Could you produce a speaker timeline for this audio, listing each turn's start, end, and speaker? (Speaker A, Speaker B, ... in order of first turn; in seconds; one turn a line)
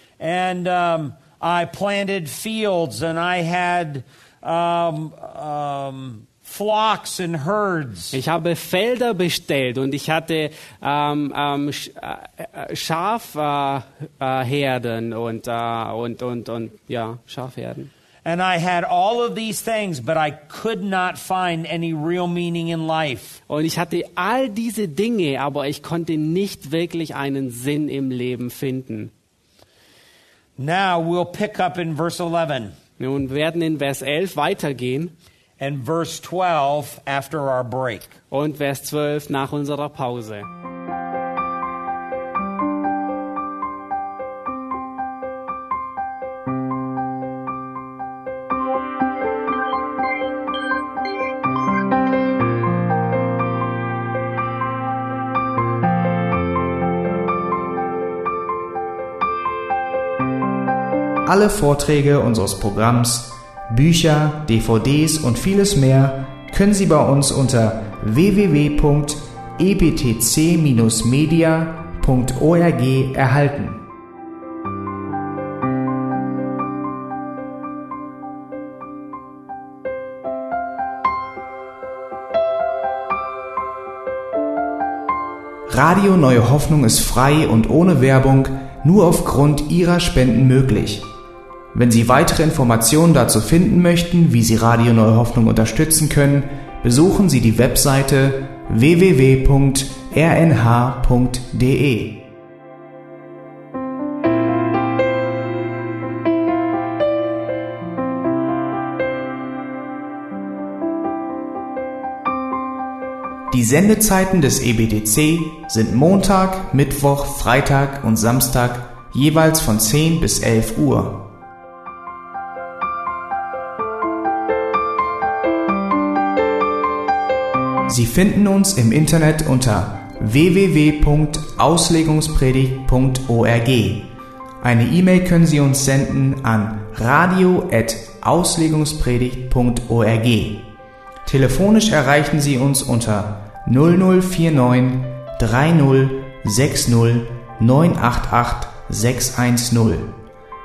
Speaker A: 0.2-8.2
Speaker B: 8.1-17.9
Speaker A: 18.2-23.4
Speaker B: 23.5-29.1
Speaker A: 30.6-32.8
Speaker B: 33.0-35.1
Speaker A: 35.6-38.1
Speaker B: 38.3-40.5
Speaker C: 61.2-73.8
Speaker C: 85.7-91.1
Speaker C: 91.7-102.2
Speaker C: 113.5-121.2
Speaker C: 127.9-134.1
Speaker C: 134.6-140.7
Speaker C: 141.2-150.1